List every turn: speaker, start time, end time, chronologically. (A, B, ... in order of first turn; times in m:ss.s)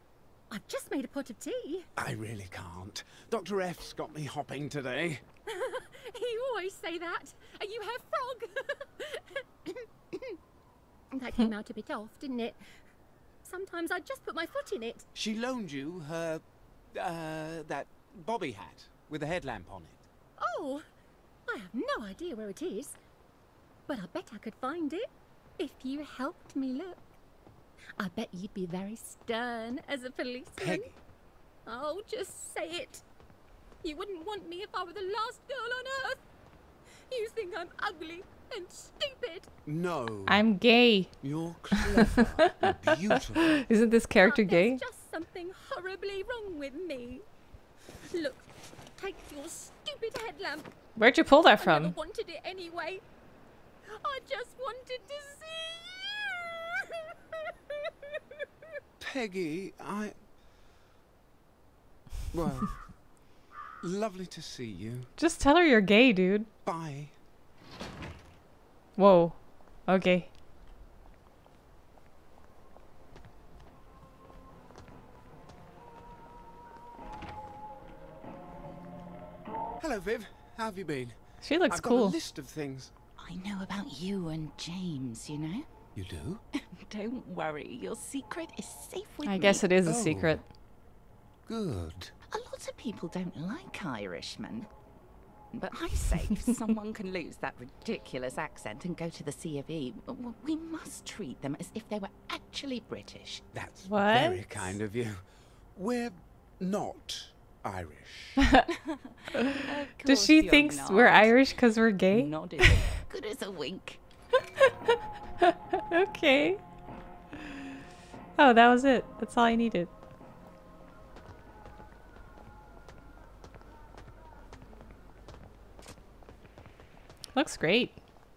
0:00.5-0:01.9 A
0:02.0-0:05.2 B
0:05.5-0:09.4 A
0:11.1-0:12.6 A
0:13.4-0:15.1 A
0:15.1-0:20.0 B
0:20.4-0:20.8 A
0:21.4-0:23.0 A
0:23.9-0:27.0 A
0:28.0-0:30.9 A
0:30.5-0:31.0 B
0:31.6-0:33.0 A
0:33.8-0:36.2 A
0:37.1-0:39.5 A
0:39.6-0:40.4 B
0:40.3-0:41.1 C
0:41.2-0:43.7 B
0:41.9-0:44.8 C
0:44.2-0:47.2 A
0:48.1-0:50.7 A
0:51.0-0:52.0 C
0:51.5-0:53.0 A
0:53.9-0:58.4 A
0:59.0-1:00.2 B
1:02.3-1:02.7 B
1:03.8-1:05.1 B
1:05.2-1:06.5 C
1:06.6-1:07.1 B
1:09.0-1:10.3 C
1:19.8-1:22.9 B
1:21.4-1:22.2 C
1:23.2-1:25.7 D
1:25.9-1:26.4 B
1:26.5-1:29.6 D
1:29.2-1:30.4 C
1:29.8-1:30.4 B
1:31.4-1:32.1 B
1:32.3-1:34.7 D
1:35.5-1:43.4 D
1:43.5-1:48.4 B
1:43.9-1:44.6 C
1:48.4-1:48.6 C
1:49.3-1:52.8 C
1:49.5-1:54.0 D
1:54.6-1:56.6 C
1:58.4-1:59.9 C
2:07.3-2:08.0 C